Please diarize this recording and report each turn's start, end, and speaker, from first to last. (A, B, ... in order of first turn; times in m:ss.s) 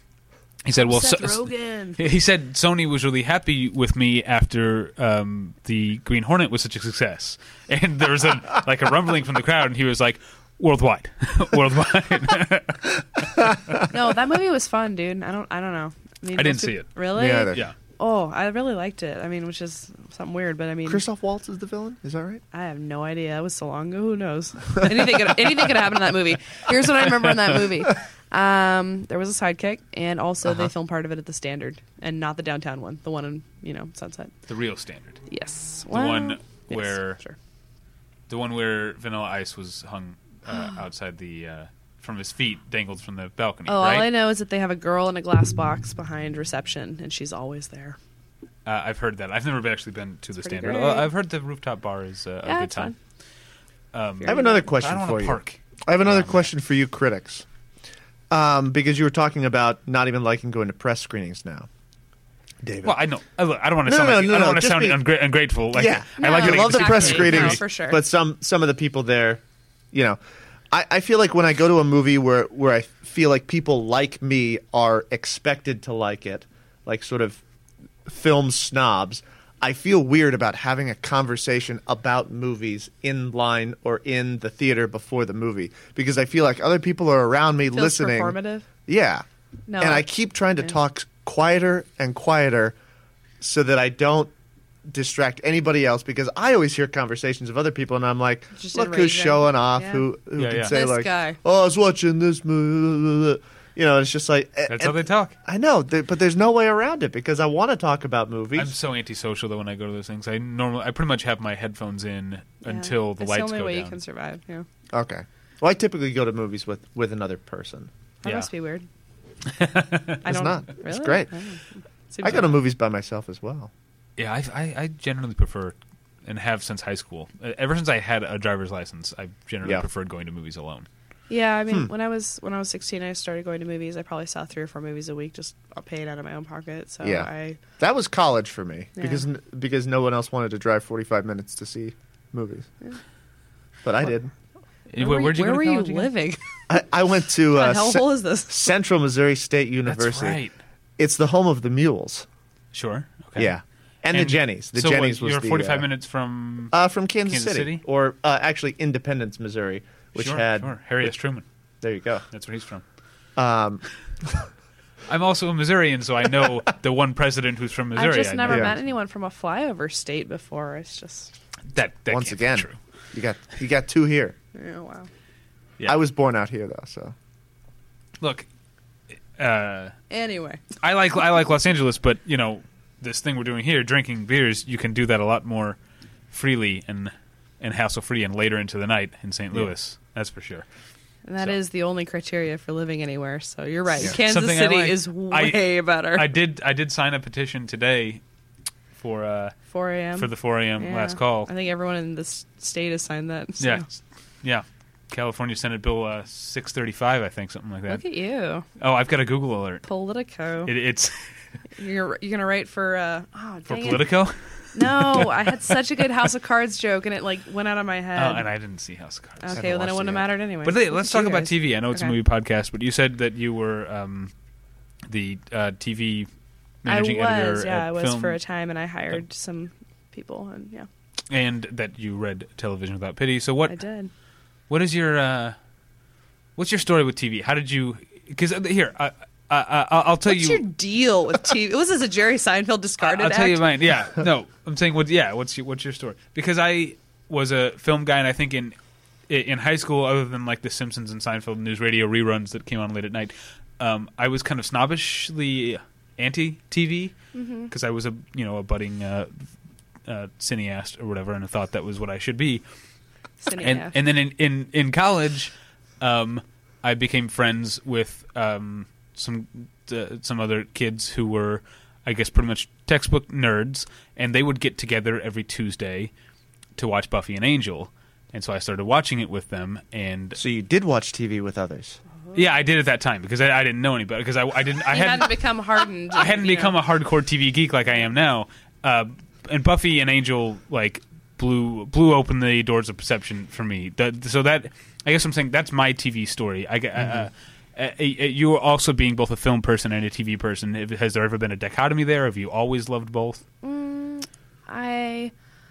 0:00.6-0:13.8 A
0:00.7-0:02.0 B
0:13.9-0:21.0 B
0:16.3-0:17.7 A
0:17.1-0:17.6 C
0:20.9-0:22.4 C
0:22.5-0:34.3 B
0:34.5-0:35.2 A
0:35.3-0:37.4 B
0:35.9-0:37.2 A
0:38.3-0:44.1 A
0:40.5-0:40.8 B
0:43.7-0:48.0 B
0:48.6-0:52.9 A
0:50.4-0:51.1 B
0:52.4-0:53.0 B
0:53.9-0:56.5 A
0:54.2-0:54.6 B
0:54.2-0:57.4 C
0:58.3-1:01.7 C
1:02.6-1:02.9 C
1:02.8-1:07.6 A
1:03.8-1:05.0 C
1:05.7-1:10.2 C
1:06.2-1:08.0 B
1:10.7-1:17.4 C
1:18.0-1:28.4 C
1:27.7-1:28.6 B
1:28.9-1:29.2 C
1:29.7-1:30.0 B
1:29.8-1:32.7 C
1:33.4-1:34.3 C
1:34.9-1:48.7 C
1:38.5-1:40.0 B
1:40.4-1:40.7 A
1:40.6-1:41.4 B
1:44.7-1:45.3 A
1:48.6-1:54.0 A
1:52.6-1:54.6 B
1:54.9-1:57.9 C
1:58.2-1:58.8 B
1:59.5-2:00.2 A
2:00.2-2:02.5 B
2:00.2-2:01.3 C
2:02.2-2:03.7 C
2:04.2-2:10.9 A
2:11.3-2:17.6 B
2:17.0-2:22.7 C
2:19.0-2:19.2 B
2:23.8-2:24.3 C
2:24.9-2:26.1 A
2:25.0-2:26.4 B
2:26.7-2:30.4 C
2:27.5-2:28.7 B
2:29.8-2:30.5 A
2:31.0-2:32.2 C
2:32.7-2:33.5 A
2:33.4-2:35.8 C
2:34.1-2:36.7 A
2:36.7-2:41.1 C
2:37.2-2:37.8 A
2:40.2-2:41.4 A
2:41.8-2:42.2 C
2:42.3-2:42.8 A
2:43.4-2:43.8 C
2:45.1-2:48.8 A
2:47.9-2:51.3 B
2:48.5-2:48.7 C
2:51.7-2:52.8 A
2:52.1-2:54.3 C
2:54.5-2:55.1 B
2:55.8-2:57.1 C
2:58.2-2:58.4 A
2:59.4-2:59.9 A
3:00.1-3:00.6 B
3:00.8-3:05.8 A
3:06.3-3:10.6 A
3:11.2-3:16.3 B
3:14.0-3:18.2 A
3:19.0-3:19.6 A
3:19.7-3:23.8 B
3:20.2-3:21.5 A
3:23.6-3:23.8 A
3:24.4-3:28.0 A
3:27.9-3:28.6 B
3:28.8-3:29.8 A
3:29.8-3:30.7 B
3:30.6-3:31.3 A
3:31.8-3:34.1 B
3:33.7-3:35.5 A
3:34.7-3:38.5 B
3:38.2-3:44.3 A
3:39.4-3:42.1 B
3:45.1-3:46.3 A
3:46.8-3:48.4 A
3:46.8-3:50.9 B
3:51.3-3:53.8 A
3:53.7-3:54.1 B
3:54.7-3:55.6 A
3:56.6-4:00.6 A
4:00.2-4:03.6 B
4:03.0-4:08.7 A
4:09.3-4:17.2 A
4:17.3-4:17.7 B
4:17.7-4:19.4 A
4:20.0-4:22.6 A
4:23.4-4:24.0 B
4:23.5-4:36.1 A
4:36.8-4:40.4 A
4:40.4-4:42.0 C
4:42.3-5:03.4 A
4:44.9-4:46.8 B
5:03.6-5:05.3 B